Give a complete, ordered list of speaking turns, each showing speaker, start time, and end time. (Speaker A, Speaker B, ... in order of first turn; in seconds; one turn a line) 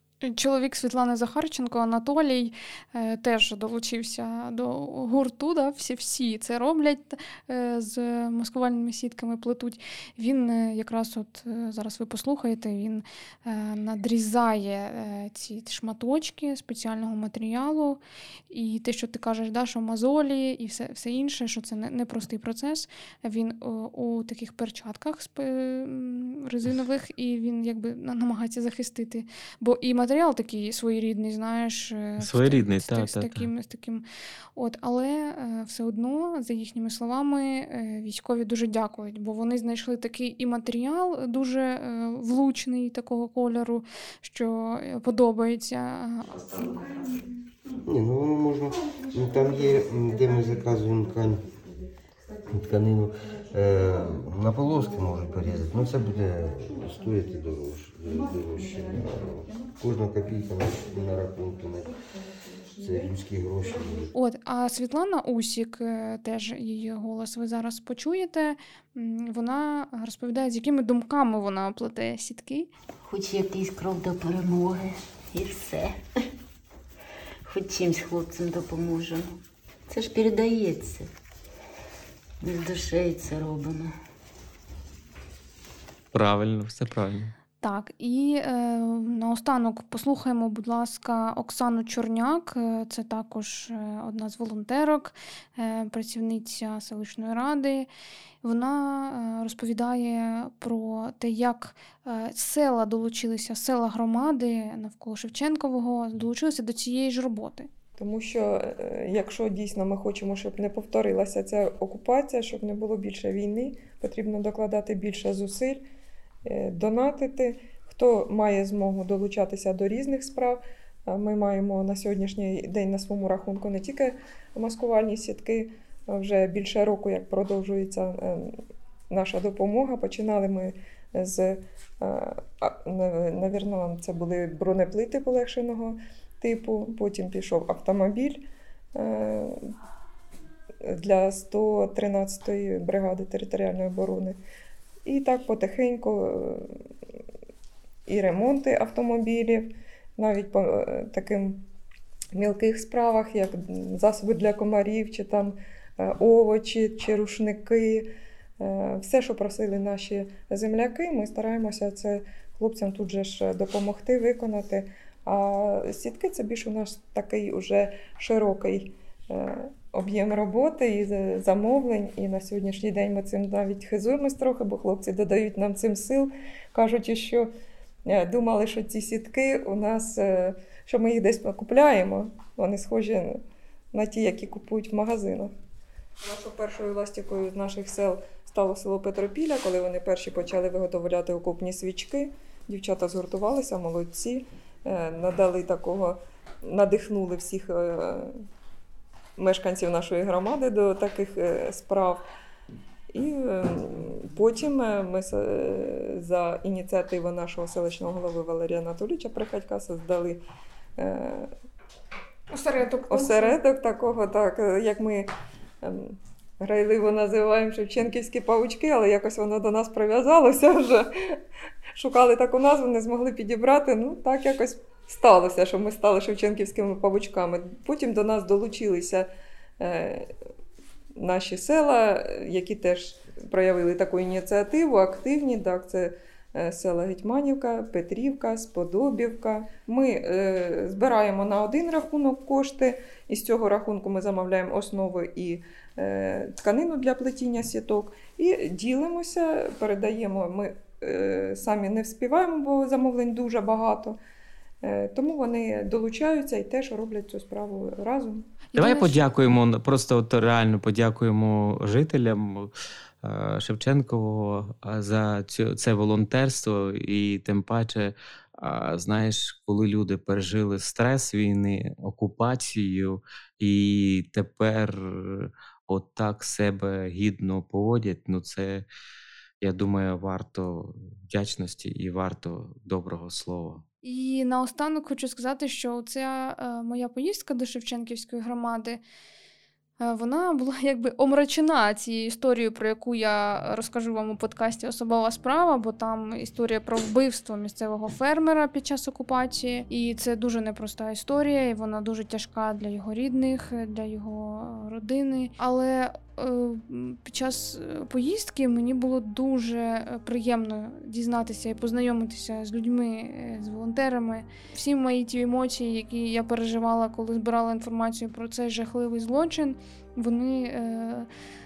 Speaker A: 0.2-34.0
Speaker B: 32.2-33.5
Speaker A: 34.6-46.5
Speaker C: 47.8-51.5
Speaker C: 52.5-61.9
Speaker C: 62.8-64.1
Speaker A: 64.1-72.7
Speaker D: 73.0-76.0
Speaker D: 77.5-81.1
Speaker D: 82.4-83.9
Speaker B: 86.1-87.3
Speaker A: 87.6-97.9
Speaker A: 98.4-107.7
Speaker E: 108.0-115.8
Speaker E: 116.5-128.6
Speaker E: 129.1-138.4
Speaker E: 138.9-139.7
Speaker E: 140.8-144.4
Speaker E: 145.0-146.7
Speaker E: 148.1-151.6
Speaker E: 152.3-158.1
Speaker E: 158.6-177.5
Speaker E: 178.1-183.4
Speaker E: 183.9-185.5
Speaker E: 186.2-198.4
Speaker E: 199.4-202.2
Speaker E: 203.1-210.4
Speaker E: 211.0-211.5
Speaker A: 212.5-213.6
Speaker E: 213.1-215.3
Speaker E: 215.8-221.1
Speaker E: 221.9-229.3
Speaker E: 229.8-230.3
Speaker E: 231.2-254.2
Speaker E: 254.8-258.4
Speaker A: 258.7-259.3
Speaker B: 258.8-262.7
Speaker B: 263.2-278.9
Speaker B: 279.6-283.8
Speaker A: 284.0-289.0
Speaker A: 290.0-321.3